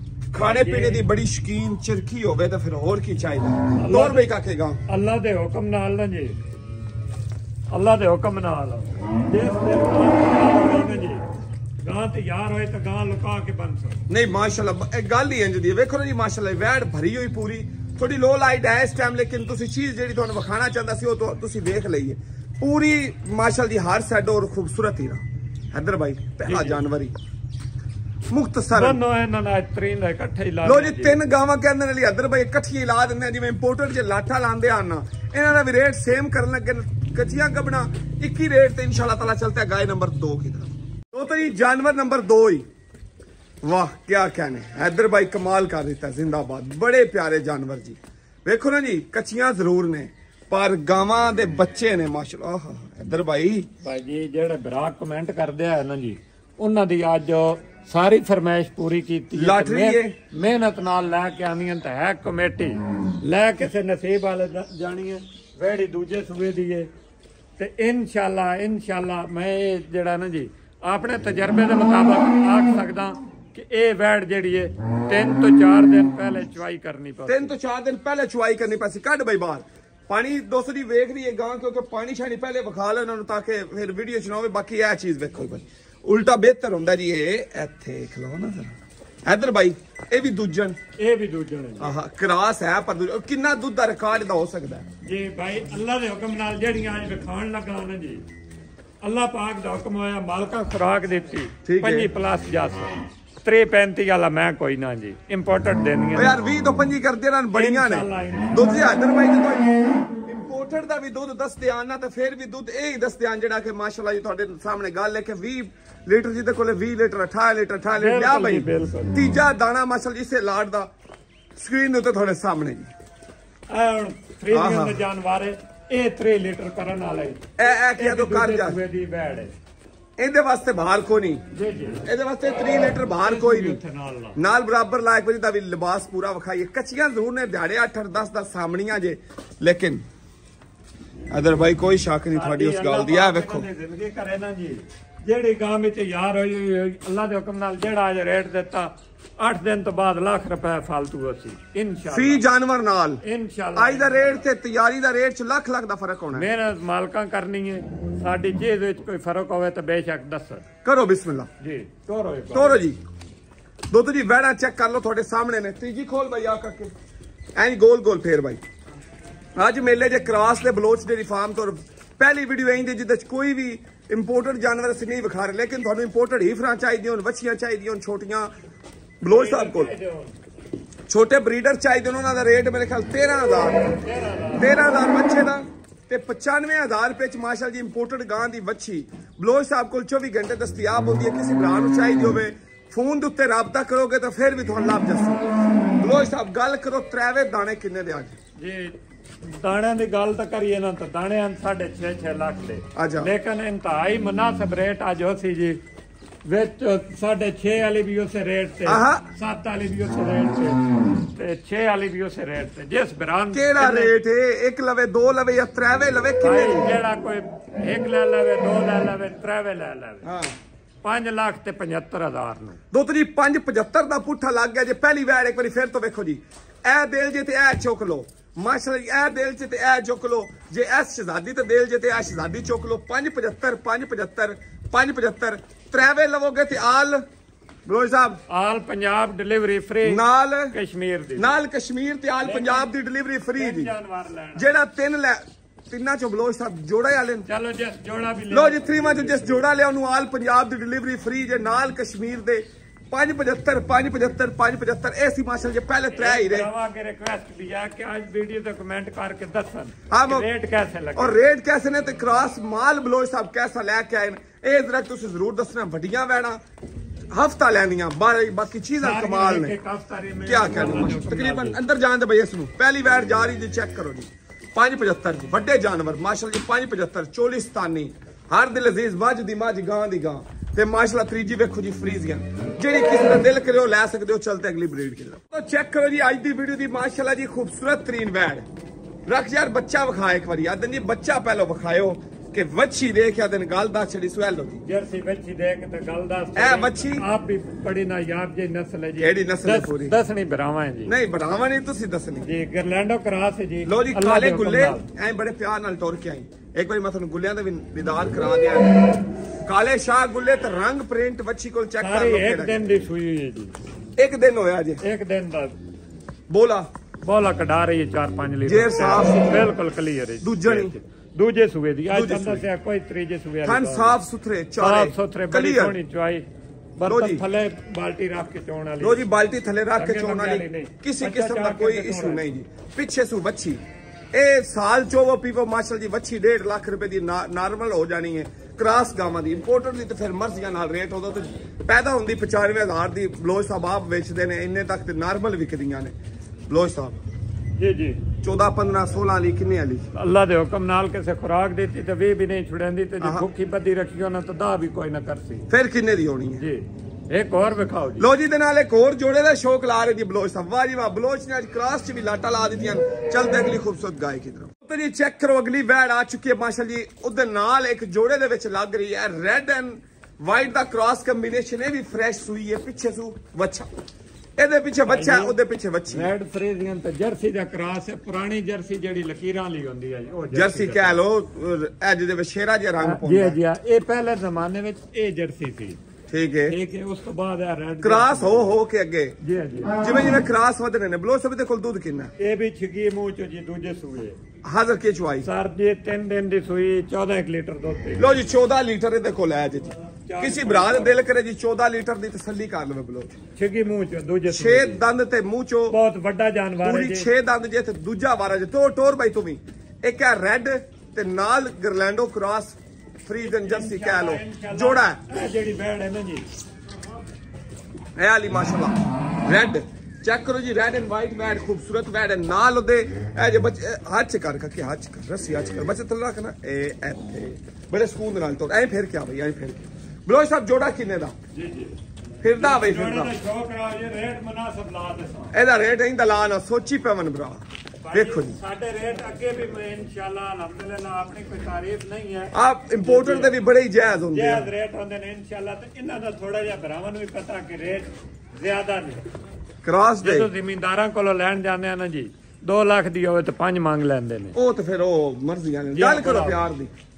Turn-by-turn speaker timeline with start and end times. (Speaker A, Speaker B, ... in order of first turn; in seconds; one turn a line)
Speaker A: 0.3-4.8
Speaker B: 0.4-1.1
Speaker B: 3.7-4.3
Speaker B: 4.9-6.4
Speaker B: 7.7-11.2
Speaker B: 11.8-14.0
Speaker A: 14.1-25.2
Speaker A: 25.7-27.1
Speaker B: 26.4-26.8
Speaker A: 28.3-29.0
Speaker B: 28.7-31.2
Speaker A: 30.6-42.6
Speaker A: 43.6-53.7
Speaker B: 53.8-66.9
Speaker A: 59.3-60.1
Speaker B: 67.6-77.5
Speaker A: 77.2-90.8
Speaker B: 91.0-91.9
Speaker A: 91.8-94.8
Speaker B: 95.0-98.2
Speaker B: 99.0-106.4
Speaker A: 101.6-102.1
Speaker A: 106.1-120.9
Speaker B: 107.5-108.7
Speaker B: 118.0-119.2
Speaker A: 121.6-122.9
Speaker B: 123.7-129.5
Speaker A: 124.5-125.0
Speaker A: 127.6-128.8
Speaker A: 130.2-131.4
Speaker B: 131.5-132.0
Speaker A: 132.1-133.8
Speaker B: 133.2-134.4
Speaker A: 134.3-140.0
Speaker A: 141.3-143.7
Speaker B: 142.3-152.4
Speaker A: 152.1-153.2
Speaker B: 153.2-154.4
Speaker A: 153.7-156.5
Speaker B: 156.3-160.6
Speaker A: 160.8-161.5
Speaker B: 161.6-162.8
Speaker A: 162.5-163.0
Speaker A: 163.9-166.9
Speaker A: 167.6-168.6
Speaker A: 169.6-178.5
Speaker A: 179.2-179.9
Speaker B: 179.3-180.4
Speaker A: 181.1-183.8
Speaker B: 183.9-184.8
Speaker A: 184.6-195.5
Speaker A: 196.0-198.3
Speaker B: 198.6-198.9
Speaker B: 199.5-205.8
Speaker A: 202.9-203.3
Speaker B: 206.4-210.8
Speaker A: 208.8-209.3
Speaker B: 211.3-214.1
Speaker A: 213.5-216.9
Speaker B: 216.4-220.3
Speaker A: 220.2-220.5
Speaker B: 221.0-222.8
Speaker A: 222.9-237.2
Speaker A: 237.8-238.4
Speaker B: 238.5-241.5
Speaker A: 240.0-240.8
Speaker A: 241.3-243.9
Speaker B: 242.4-242.9
Speaker B: 243.6-244.7
Speaker A: 244.5-247.5
Speaker B: 247.4-249.7
Speaker A: 248.5-256.7
Speaker B: 256.1-261.4
Speaker A: 260.1-260.5
Speaker A: 261.1-266.6
Speaker A: 267.3-269.8
Speaker B: 269.0-271.8
Speaker A: 270.4-288.6
Speaker A: 289.2-294.8
Speaker B: 294.8-301.1
Speaker A: 296.5-297.2
Speaker A: 299.2-300.1
Speaker A: 301.1-302.5
Speaker B: 302.4-305.0
Speaker A: 303.8-312.8
Speaker B: 312.0-313.7
Speaker A: 314.2-315.0
Speaker B: 315.0-315.8
Speaker A: 316.5-316.9
Speaker B: 317.2-324.2
Speaker A: 318.6-319.7
Speaker A: 320.4-320.9
Speaker A: 322.1-322.7
Speaker A: 323.6-326.0
Speaker B: 324.8-326.4
Speaker B: 327.0-329.2
Speaker A: 327.0-327.4
Speaker A: 329.0-333.8
Speaker B: 330.0-332.5
Speaker A: 334.3-346.1
Speaker A: 346.7-347.2
Speaker B: 347.8-348.2
Speaker A: 348.4-350.1
Speaker B: 350.1-355.7
Speaker A: 353.2-353.5
Speaker A: 355.7-356.6
Speaker B: 356.6-358.3
Speaker A: 358.2-373.9
Speaker A: 374.6-376.3
Speaker B: 375.1-375.6
Speaker B: 376.1-381.2
Speaker A: 380.5-383.6
Speaker B: 383.0-386.0
Speaker A: 386.3-386.8
Speaker B: 386.7-388.7
Speaker A: 388.0-389.4
Speaker B: 389.4-390.0
Speaker A: 390.0-392.3
Speaker B: 392.4-394.4
Speaker A: 394.6-395.5
Speaker B: 395.4-398.4
Speaker A: 398.2-403.4
Speaker B: 400.2-401.2
Speaker B: 403.6-405.0
Speaker A: 404.5-405.9
Speaker B: 405.9-407.3
Speaker A: 406.8-415.2
Speaker B: 413.4-416.4
Speaker A: 418.1-431.4
Speaker B: 431.5-431.9
Speaker A: 432.4-433.3
Speaker B: 432.5-435.5
Speaker A: 435.5-438.6
Speaker B: 438.0-443.6
Speaker A: 442.5-444.7
Speaker B: 444.3-449.2
Speaker A: 449.8-450.5
Speaker B: 450.2-454.5
Speaker A: 454.5-456.9
Speaker B: 455.9-456.6